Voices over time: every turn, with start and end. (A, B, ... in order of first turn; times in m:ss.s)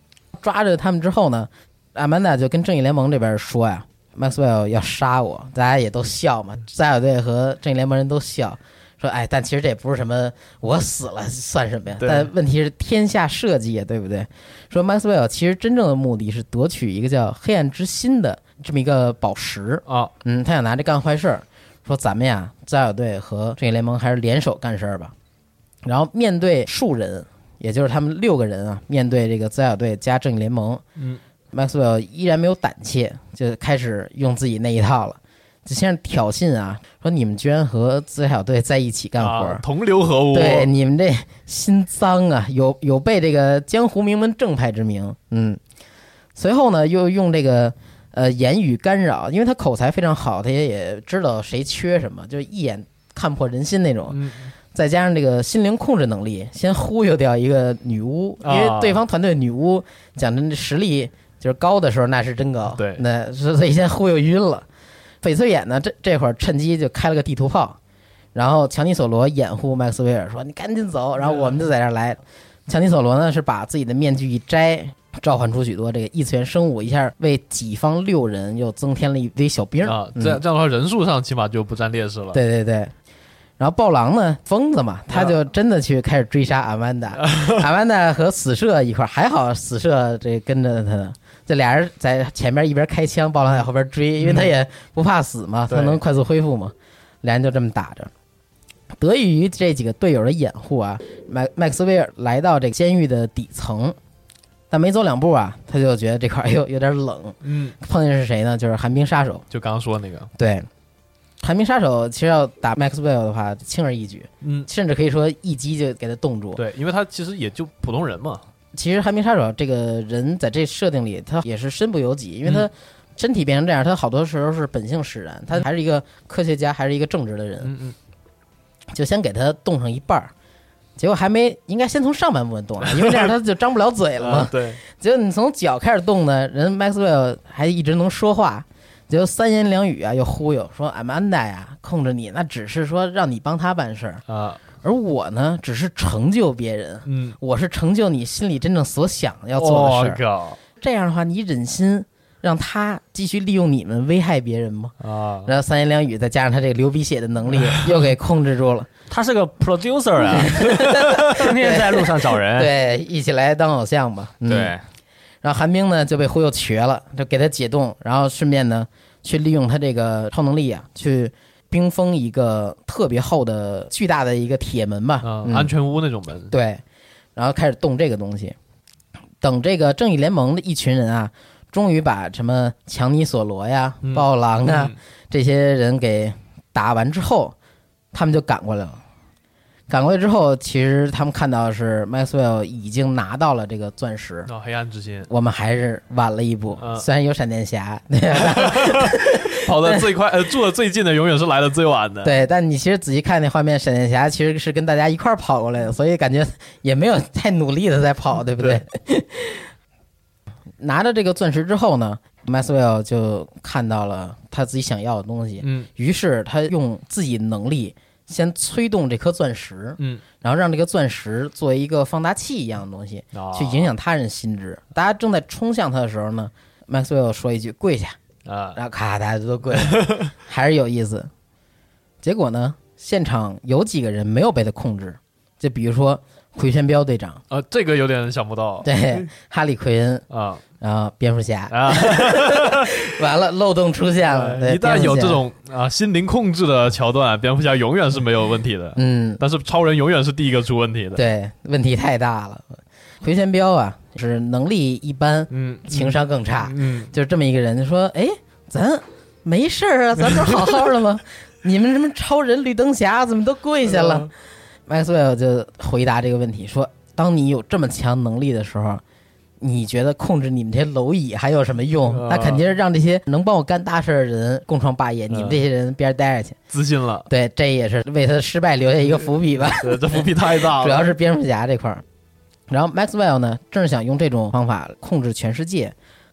0:00.3-0:25.1 A
0:12.0-0:12.3 B
0:19.9-0:20.1 B
0:25.8-0:30.8 A
0:31.5-0:39.6 A
0:39.2-0:40.7 B
0:40.3-0:45.6 A
0:46.4-0:54.2 A
0:54.1-0:54.5 B
0:54.7-1:04.6 A
0:58.4-0:59.0 B
1:02.7-1:03.0 B
1:05.2-1:07.8 A
1:08.3-1:20.4 A
1:11.2-1:11.5 B
1:19.8-1:22.4 B
1:22.3-1:22.9 A
1:23.6-1:38.1 A
1:27.2-1:27.6 B
1:34.2-1:34.5 B
1:35.7-1:36.0 B
1:39.0-1:44.0 A
1:44.7-1:49.5 A
1:47.4-1:47.8 B
1:49.5-1:50.3 B
1:50.4-1:50.7 A
1:51.4-1:56.6 A
1:54.4-1:54.7 B
1:56.6-1:58.4 B
1:58.7-2:07.7 A
2:07.6-2:07.9 B
2:08.9-2:10.3 A
2:11.0-2:24.2 A
2:12.8-2:13.3 B
2:14.2-2:14.8 B
2:24.3-2:24.6 B
2:24.8-2:30.2 A
2:27.0-2:27.4 B
2:29.6-2:30.6 B
2:30.8-2:34.9 A
2:35.0-2:35.5 B
2:35.4-2:38.9 A
2:37.6-2:37.9 B
2:39.1-2:40.6 C
2:40.4-2:44.7 A
2:41.3-2:42.7 C
2:44.5-2:44.8 C
2:45.4-2:55.7 A
2:55.2-2:56.5 B
2:56.5-2:56.8 A
2:57.4-2:58.5 A
2:59.4-3:07.5 A
3:04.0-3:05.0 B
3:08.1-3:09.0 A
3:09.9-3:14.5 A
3:14.5-3:15.3 B
3:15.3-3:20.0 A
3:16.8-3:17.0 B
3:18.5-3:22.4 B
3:22.2-3:29.7 A
3:30.8-3:48.2 A
3:35.6-3:35.9 B
3:43.3-3:43.9 B
3:48.4-3:48.8 B
3:48.7-3:51.3 A
3:49.9-3:50.3 B
3:52.2-3:57.4 A
3:57.5-3:59.2 B
3:58.8-4:00.2 A
4:00.3-4:00.6 B
4:00.8-4:05.4 A
4:01.7-4:02.9 B
4:04.3-4:11.2 B
4:09.0-4:09.4 A
4:11.1-4:12.6 A
4:13.2-4:24.3 A
4:15.5-4:17.1 B
4:23.8-4:24.3 B
4:24.9-4:29.0 A
4:29.6-4:36.6 A
4:32.1-4:32.6 B
4:35.3-4:35.6 B
4:36.7-4:37.3 B
4:37.3-4:42.0 A
4:39.8-4:41.1 B
4:42.7-4:45.9 A